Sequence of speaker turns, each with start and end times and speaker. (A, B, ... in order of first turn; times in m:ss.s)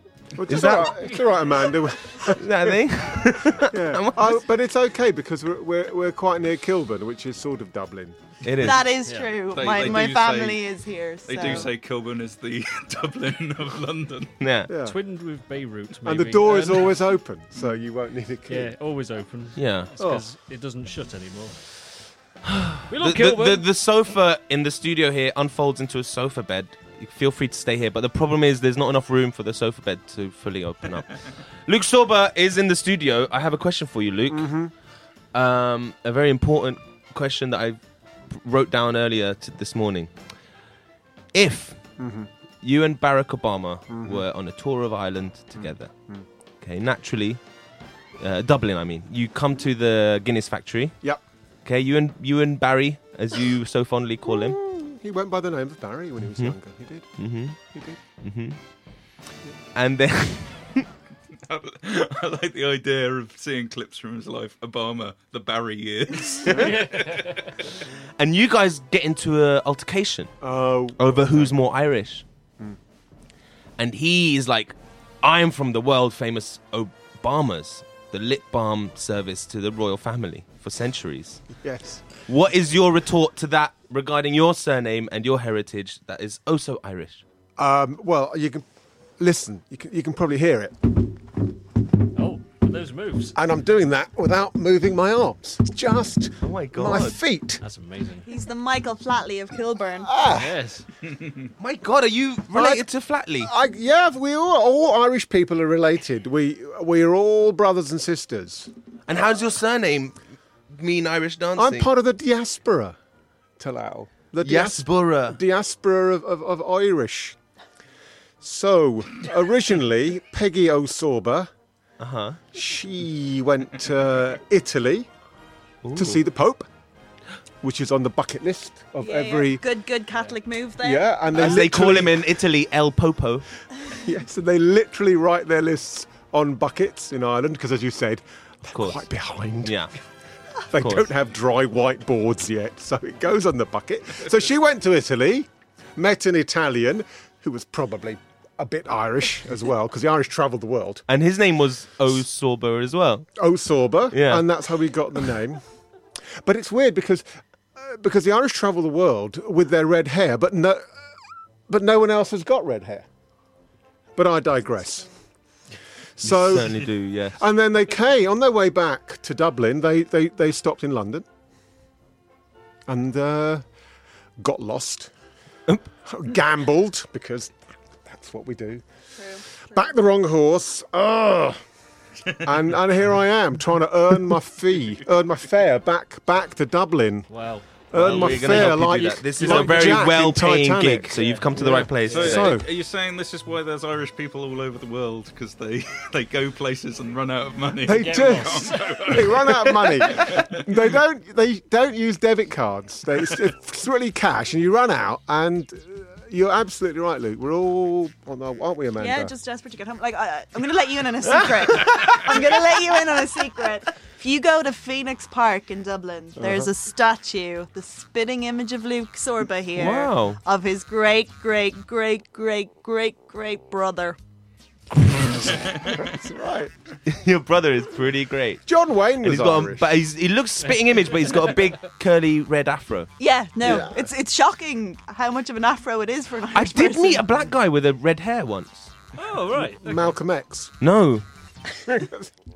0:00.4-0:02.8 A
0:00.4-0:01.1 B
0:01.0-0:01.3 C
0:02.3-0:04.4 B
0:03.6-0:08.2 A
0:08.4-0:08.8 B
0:08.6-0:11.7 D
0:09.0-0:09.4 C
0:09.5-0:10.7 E
0:11.2-0:14.3 E
0:14.4-0:14.7 B
0:14.7-0:15.0 A
0:14.8-0:17.0 C
0:16.0-0:18.7 A
0:18.5-0:21.6 C
0:19.6-0:19.9 B
0:20.0-0:20.2 A
0:22.4-0:34.5 B
0:22.9-0:23.6 C
0:34.3-0:34.7 A
0:35.3-0:40.1 B
0:41.3-0:41.8 B
0:42.0-0:42.3 A
0:42.6-0:45.9 B
0:43.9-0:44.2 A
0:45.6-0:46.2 A
0:46.6-0:47.4 B
0:48.2-0:51.0 B
0:51.6-0:54.6 B
0:54.3-0:58.0 A
0:56.3-0:56.6 B
0:57.2-0:57.6 B
0:58.2-0:58.6 B
0:59.7-1:00.9 B
1:01.4-1:07.4 E
1:06.5-1:07.4 C
1:08.2-1:10.3 B
1:10.4-1:11.5 A
1:11.0-1:12.2 B
1:13.8-1:21.4 B
1:21.5-1:22.1 A
1:22.3-1:27.2 B
1:27.6-1:28.6 A
1:29.2-1:30.9 A
1:32.1-1:33.4 C
1:33.3-1:37.6 A
1:36.4-1:37.2 B
1:37.6-1:38.3 C
1:38.2-1:40.1 D
1:40.0-1:40.5 A
1:40.3-1:40.8 C
1:41.6-1:43.5 B
1:42.5-1:42.9 A
1:43.4-1:48.7 A
1:49.1-1:50.2 B
1:50.7-1:51.9 B
1:51.6-1:53.0 A
1:53.6-1:57.4 A
1:54.4-1:55.4 B
1:58.4-2:01.5 A
2:02.0-2:02.4 B
2:02.5-2:05.1 A
2:05.8-2:06.2 B
2:05.9-2:06.7 A
2:07.6-2:09.6 A
2:09.0-2:11.2 D
2:10.8-2:12.3 A
2:11.3-2:13.4 B
2:13.9-2:19.8 A
2:18.7-2:19.1 B
2:19.6-2:19.9 B
2:20.7-2:31.0 A
2:20.7-2:21.1 B
2:31.1-2:33.3 B
2:33.4-2:35.6 A
2:34.1-2:34.5 B
2:36.4-2:37.2 A
2:37.8-2:40.8 A
2:41.7-2:43.0 A
2:44.2-2:45.1 A
2:46.2-2:51.2 A
2:46.2-2:47.4 B
2:52.9-2:53.6 A
2:54.4-2:55.1 A
2:56.0-2:58.8 A
2:59.2-2:59.4 D
2:59.6-3:01.6 A
3:02.4-3:07.3 A
3:07.3-3:10.1 C
3:07.9-3:12.6 A
3:07.9-3:12.6 B
3:11.1-3:12.4 C
3:12.1-3:20.6 E
3:17.8-3:29.3 A
3:18.0-3:19.4 C
3:29.0-3:44.2 D
3:31.2-3:32.2 B
3:36.4-3:36.7 A
3:39.7-3:40.4 B
3:45.1-3:46.7 A
3:45.4-3:46.0 E
3:47.0-3:48.6 B
3:48.6-3:49.9 A
3:49.2-3:53.1 B
3:50.6-3:51.5 C
3:53.2-3:57.3 D
3:53.6-3:54.1 A
3:56.5-3:58.9 B
3:59.2-4:00.2 C
3:59.6-4:00.7 A
4:00.8-4:01.2 B
4:01.8-4:02.3 A